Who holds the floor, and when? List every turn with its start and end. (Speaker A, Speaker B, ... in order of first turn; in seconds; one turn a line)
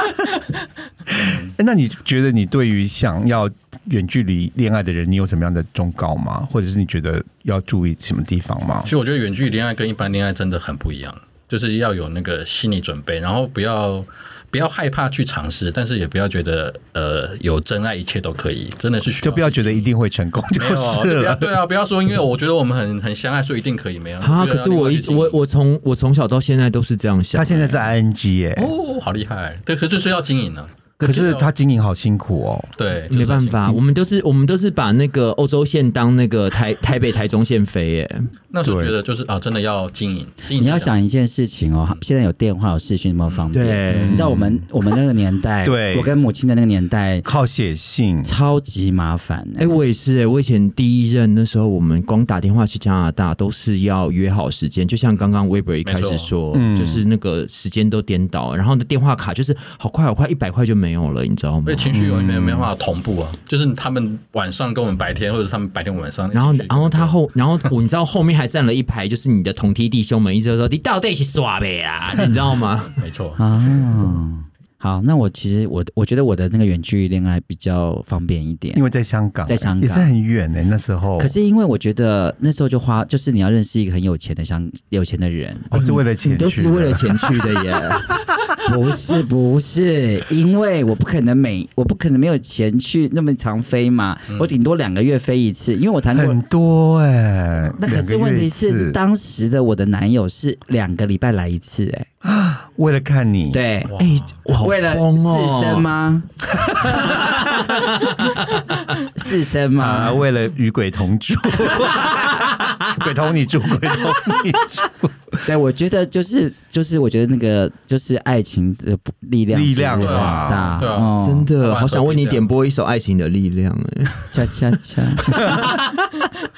Speaker A: 1.1-1.5
Speaker B: 1.1-8.9
Speaker A: 8.8-19.9
Speaker B: 19.2-21.6
Speaker A: 20.5-25.4
Speaker C: 24.2-27.9
Speaker B: 27.3-28.7
Speaker A: 28.6-31.5
Speaker B: 31.0-32.7
Speaker A: 32.8-33.8
Speaker C: 33.1-38.3
Speaker A: 38.5-40.9
Speaker B: 38.6-39.0
Speaker D: 40.6-47.3
Speaker A: 43.3-44.2
Speaker C: 43.5-44.5
Speaker B: 44.1-44.5
Speaker B: 45.6-46.1
Speaker B: 47.2-48.3
Speaker D: 48.2-49.7
Speaker C: 49.6-62.0
Speaker A: 55.9-56.3
Speaker B: 56.5-57.0
Speaker A: 61.6-67.7
Speaker B: 61.9-62.7
Speaker C: 66.3-73.0
Speaker A: 73.0-73.4
Speaker D: 73.4-78.8
Speaker B: 78.7-81.3
Speaker D: 79.5-80.1
Speaker D: 81.2-85.9
Speaker B: 85.7-87.5
Speaker C: 85.7-88.2
Speaker D: 88.6-96.4
Speaker B: 96.1-99.0
Speaker D: 97.8-102.1
Speaker B: 102.2-103.6
Speaker D: 103.5-104.0
Speaker A: 103.9-104.4
Speaker C: 104.0-105.9
Speaker D: 104.6-106.3
Speaker B: 106.7-107.2
Speaker C: 106.9-108.4
Speaker D: 109.1-110.2
Speaker B: 109.8-115.1
Speaker D: 115.5-121.5
Speaker B: 119.5-120.8
Speaker A: 120.0-122.5
Speaker C: 121.2-124.4
Speaker D: 124.3-125.4
Speaker C: 125.3-125.8